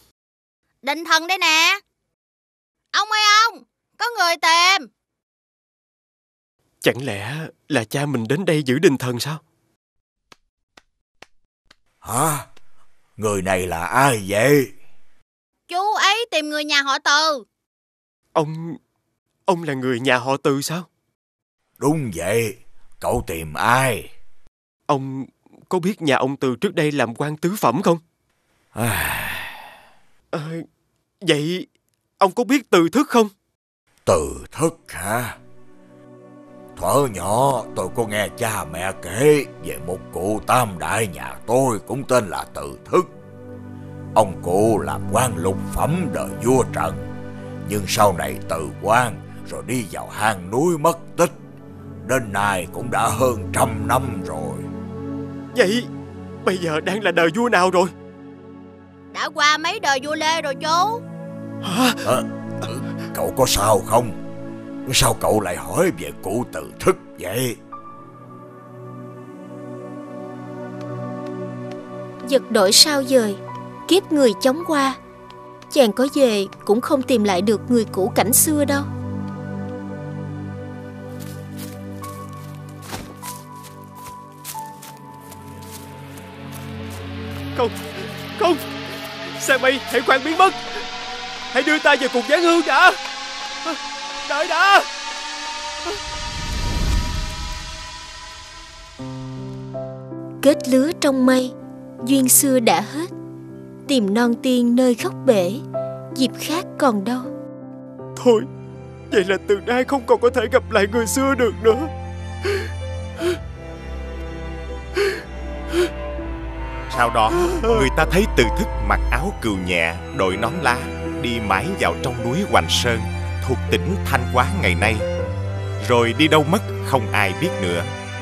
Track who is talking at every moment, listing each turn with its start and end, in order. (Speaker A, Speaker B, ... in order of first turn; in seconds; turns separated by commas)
Speaker A: 0.8-1.8, Speaker A: 2.9-4.9, Speaker B: 6.8-9.4, Speaker C: 12.0-12.5, Speaker C: 13.2-14.7, Speaker A: 15.7-17.4, Speaker B: 18.3-18.8, Speaker B: 19.5-20.9, Speaker C: 21.8-24.1, Speaker B: 24.9-28.0, Speaker C: 28.8-29.5, Speaker B: 30.3-30.6, Speaker B: 31.2-31.7, Speaker B: 32.2-33.3, Speaker C: 34.0-35.4, Speaker C: 36.8-43.1, Speaker C: 44.1-47.1, Speaker C: 47.6-51.3, Speaker C: 52.0-54.7, Speaker B: 55.5-55.9, Speaker B: 56.4-57.9, Speaker A: 59.1-61.0, Speaker B: 61.6-62.0, Speaker C: 62.0-64.2, Speaker C: 64.8-67.6, Speaker D: 72.2-75.0, Speaker D: 75.7-78.9, Speaker B: 87.5-88.6, Speaker B: 89.2-90.6, Speaker B: 91.5-93.0, Speaker B: 93.7-94.9, Speaker D: 100.4-103.1, Speaker D: 103.9-105.6, Speaker D: 106.2-107.3, Speaker B: 108.2-108.5, Speaker B: 109.1-111.9, Speaker E: 116.9-125.1, Speaker B: 117.5-118.0, Speaker E: 125.8-127.9